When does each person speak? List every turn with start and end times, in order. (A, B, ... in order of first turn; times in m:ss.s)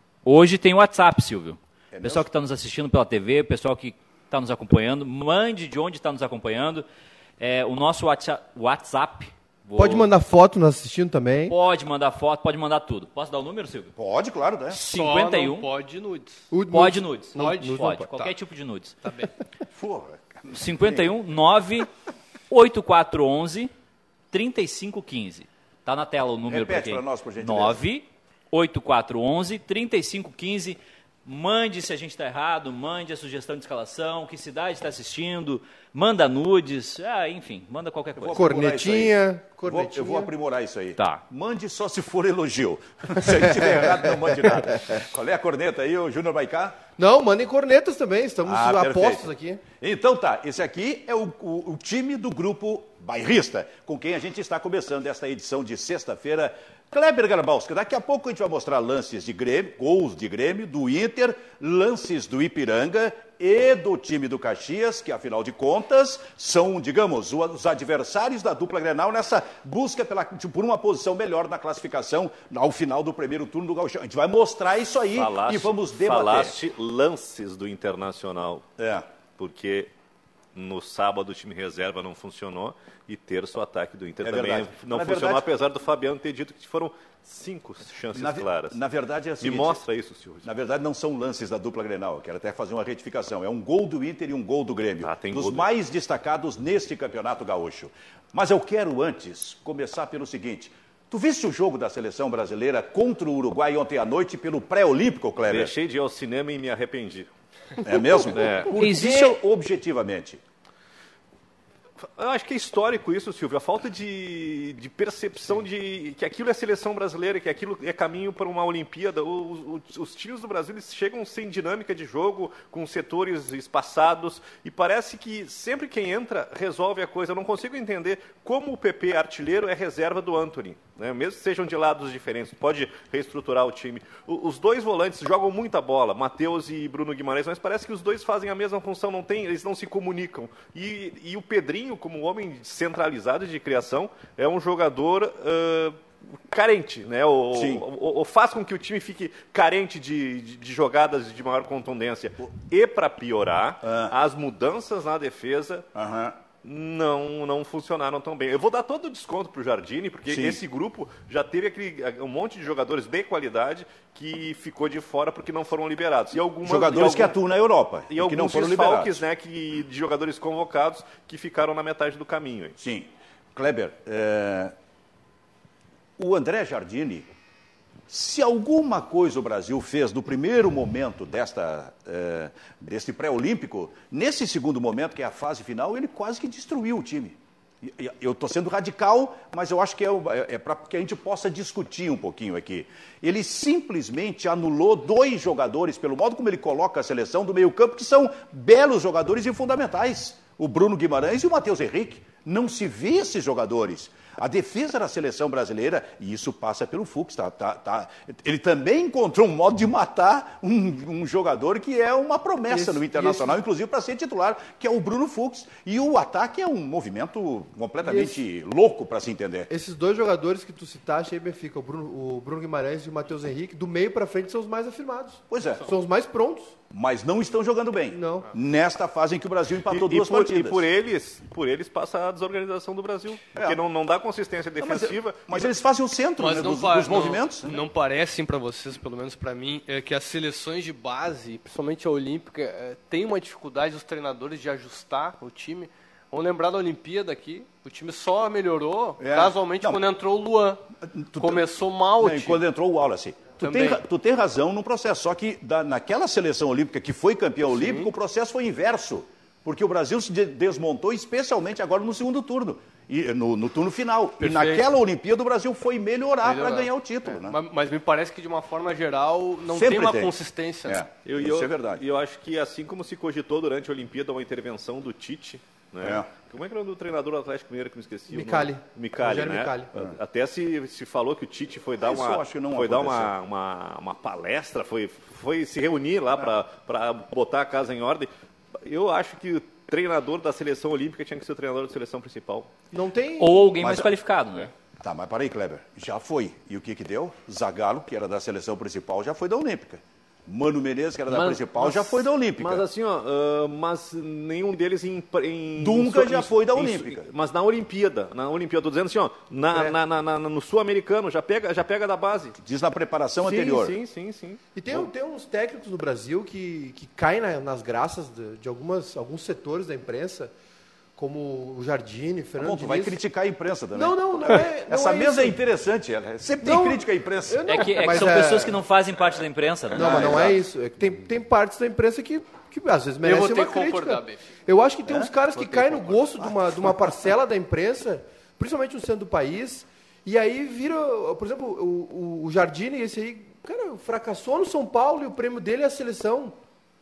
0:00.2-0:06.8 A
0:01.9-0:02.3 B
0:07.4-0:10.1 A
0:09.8-0:11.5 C
0:11.5-0:13.9 A
0:14.0-0:14.8 B
0:14.7-0:15.7 A
0:14.8-0:16.5 D
0:16.5-0:18.3 C
0:16.7-0:19.0 A
0:17.4-0:17.8 D
0:19.0-0:19.3 D
0:19.7-0:21.1 B
0:20.5-0:21.9 A
0:22.5-0:23.7 A
0:24.3-0:38.5 A
0:26.5-0:27.8 B
0:38.2-0:46.8 B
0:38.4-0:40.3 C
0:41.0-0:41.2 A
0:47.0-0:49.6 C
0:48.4-1:16.6 B
1:15.2-1:18.7 E
1:18.8-1:19.1 B
1:19.4-1:19.9 E
1:20.6-1:28.8 E
1:24.2-1:25.5 B
1:28.1-1:29.8 B
1:29.4-1:30.5 E
1:30.4-1:45.7 B
1:35.0-1:35.7 E
1:45.5-1:47.3 E
1:47.8-1:50.4 B
1:48.3-1:48.7 E
1:48.8-1:49.4 A
1:52.0-2:26.0 E
2:26.5-2:35.9 E
2:27.5-2:27.9 B
2:33.8-2:34.1 B
2:36.0-2:36.4 B
2:36.6-2:47.4 E
2:40.3-2:40.6 B
2:46.6-2:49.2 B
2:48.1-2:52.8 E
2:52.8-2:54.7 B
2:56.2-2:57.3 B
2:58.1-3:39.7 B
3:32.7-3:33.6 C
3:38.0-3:38.4 C
3:39.7-3:46.7 C
3:45.5-3:45.9 B
3:46.9-3:50.9 B
3:48.1-3:48.5 C
3:49.9-3:55.7 E
3:54.8-3:57.8 B
3:56.4-4:10.8 D
4:09.2-4:10.0 B
4:11.1-4:11.7 B
4:11.4-4:12.6 D
4:12.2-4:27.6 B
4:13.6-4:14.0 D
4:17.7-4:18.1 D
4:24.4-4:24.8 D
4:26.4-4:31.0 D
4:29.7-4:30.3 B
4:30.9-4:32.0 B
4:31.2-4:48.3 E
4:36.0-4:36.3 B
4:38.3-4:39.9 C
4:42.0-4:43.3 B
4:48.8-4:52.7 E
4:52.9-4:53.7 C
4:53.4-4:54.7 A
4:53.8-4:54.1 B
4:55.0-5:02.9 B
5:01.3-5:02.1 E
5:02.6-5:12.6 E
5:05.8-5:07.3 B
5:12.6-5:14.0 B
5:13.4-5:14.6 E
5:14.8-5:20.5 C
5:21.2-5:23.2 C
5:22.6-5:28.4 B
5:23.9-5:25.6 C
5:26.6-5:28.8 C
5:27.7-5:30.5 A
5:29.9-5:30.6 B
5:30.0-5:46.6 C
5:33.2-5:34.4 D
5:35.1-5:35.3 B
5:36.1-5:36.9 B